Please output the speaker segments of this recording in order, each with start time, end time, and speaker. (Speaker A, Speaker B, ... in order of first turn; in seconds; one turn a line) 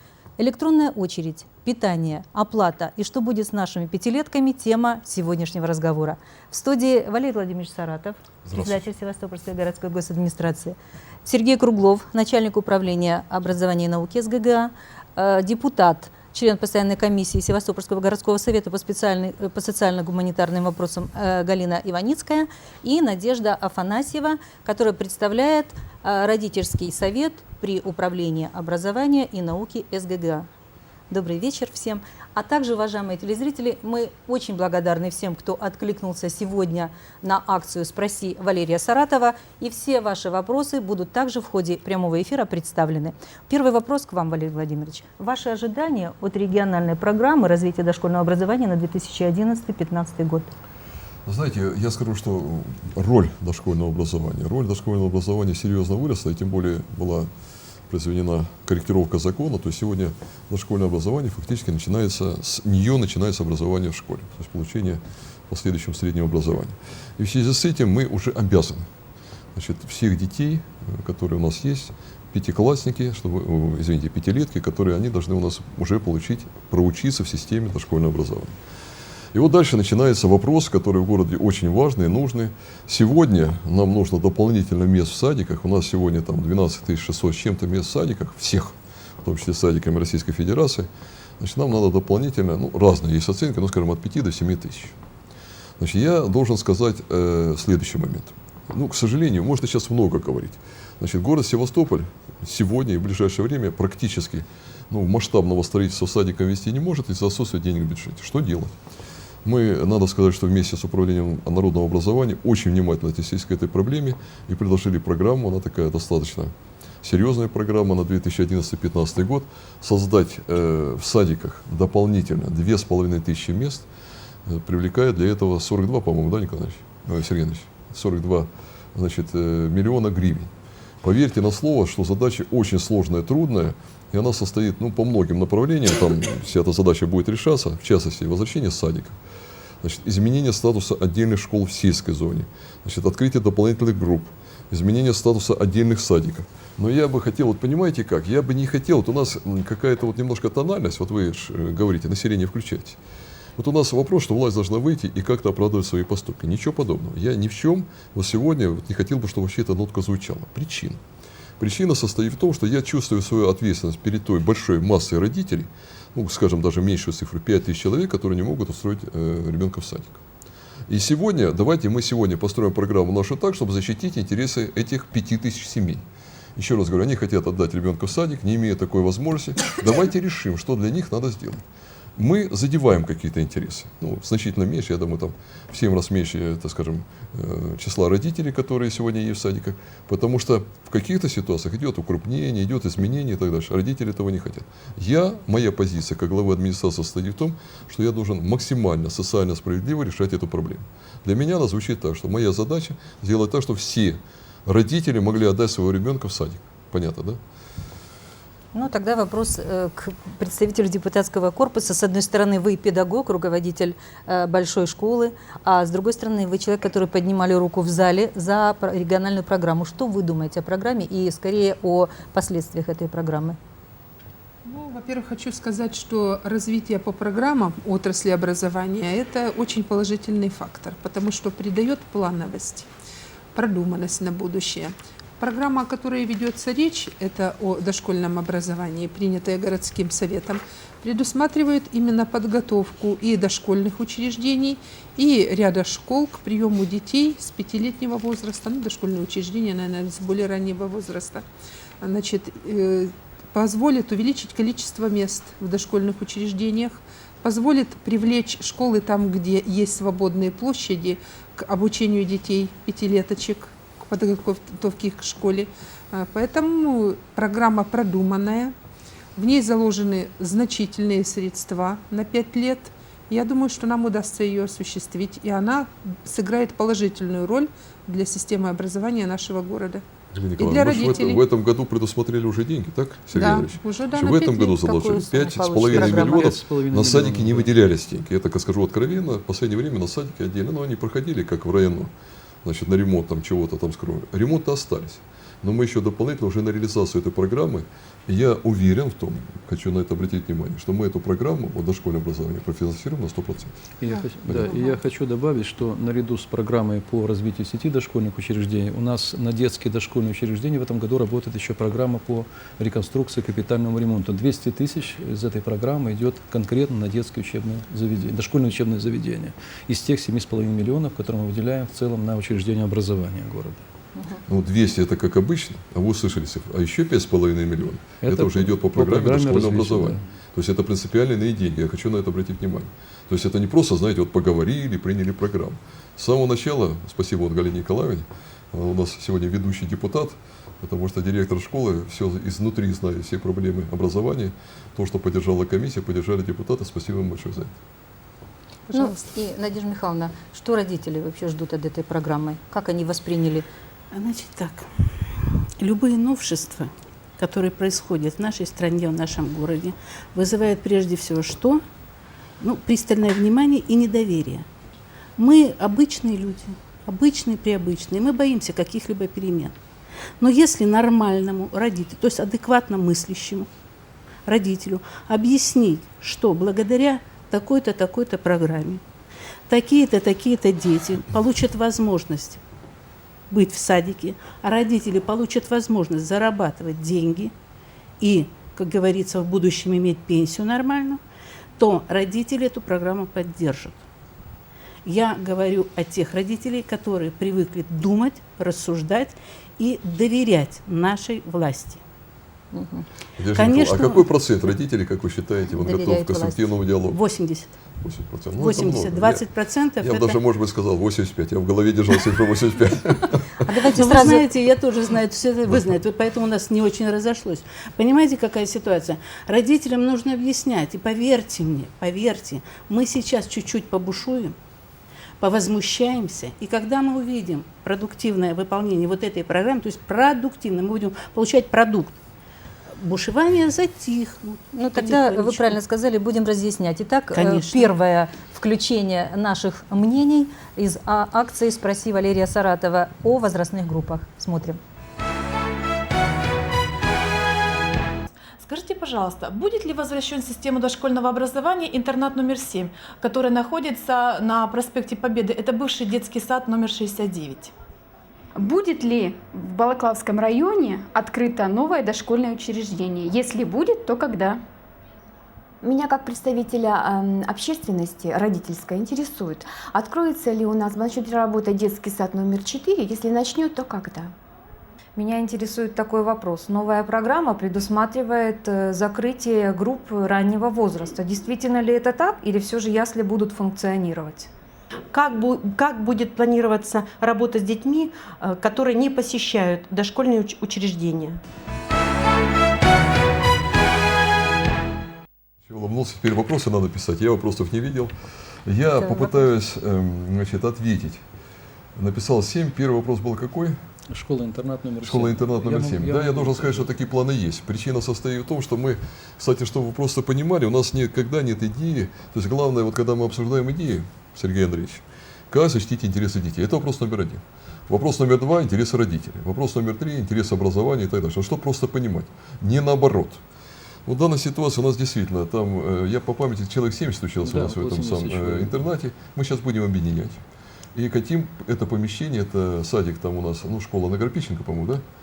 Speaker A: 0.4-30.5
Speaker B: 8.4-8.8
Speaker A: 31.1-50.5
Speaker B: 51.2-57.3
Speaker B: 57.9-68.9
Speaker B: 69.5-78.6
Speaker B: 79.3-90.9
Speaker B: 91.4-94.9
Speaker B: 95.8-108.7
Speaker B: 109.4-123.9
Speaker B: 124.5-130.5
Speaker B: 131.0-139.2
Speaker B: 139.8-153.0
Speaker B: 153.6-161.0
Speaker B: 161.6-170.2
Speaker B: 170.9-176.0
Speaker B: 176.6-181.6
Speaker B: 182.2-207.4
Speaker A: 208.7-223.6
Speaker C: 224.6-232.9
Speaker C: 233.5-251.4
Speaker C: 252.0-268.7
Speaker C: 269.4-280.0
Speaker B: 280.3-292.1
Speaker C: 280.6-281.4
Speaker C: 283.3-284.8
Speaker D: 284.8-287.7
Speaker B: 292.6-303.7
Speaker D: 304.0-323.8
Speaker C: 304.1-304.9
Speaker B: 304.4-304.8
Speaker B: 324.5-347.8
Speaker D: 328.2-330.2
Speaker C: 348.9-349.3
Speaker A: 348.9-353.6
Speaker E: 354.1-354.9
Speaker E: 355.8-361.8
Speaker E: 362.6-364.6
Speaker E: 365.4-369.7
Speaker E: 370.4-373.7
Speaker E: 374.4-379.0
Speaker E: 379.7-382.6
Speaker E: 383.5-387.5
Speaker E: 388.2-391.2
Speaker E: 391.8-394.0
Speaker E: 395.1-402.0
Speaker A: 402.7-403.0
Speaker B: 403.4-407.2
Speaker E: 403.5-404.3
Speaker A: 405.7-406.7
Speaker E: 407.1-407.7
Speaker B: 408.0-409.4
Speaker E: 408.6-410.4
Speaker B: 410.0-413.7
Speaker A: 413.6-414.4
Speaker E: 414.0-424.6
Speaker E: 425.4-432.1
Speaker E: 433.0-435.8
Speaker A: 434.7-444.8
Speaker E: 437.3-437.9
Speaker F: 448.6-457.7
Speaker G: 458.6-464.6
Speaker H: 465.8-474.3
Speaker I: 475.2-484.5
Speaker H: 476.0-476.2
Speaker H: 476.8-477.2
Speaker H: 477.8-484.3
Speaker J: 485.1-491.4
Speaker B: 495.6-498.1
Speaker B: 498.6-501.2
Speaker B: 501.9-503.8
Speaker D: 504.1-506.9
Speaker B: 505.0-523.4
Speaker B: 524.0-530.4
Speaker D: 527.4-528.7
Speaker B: 530.9-535.0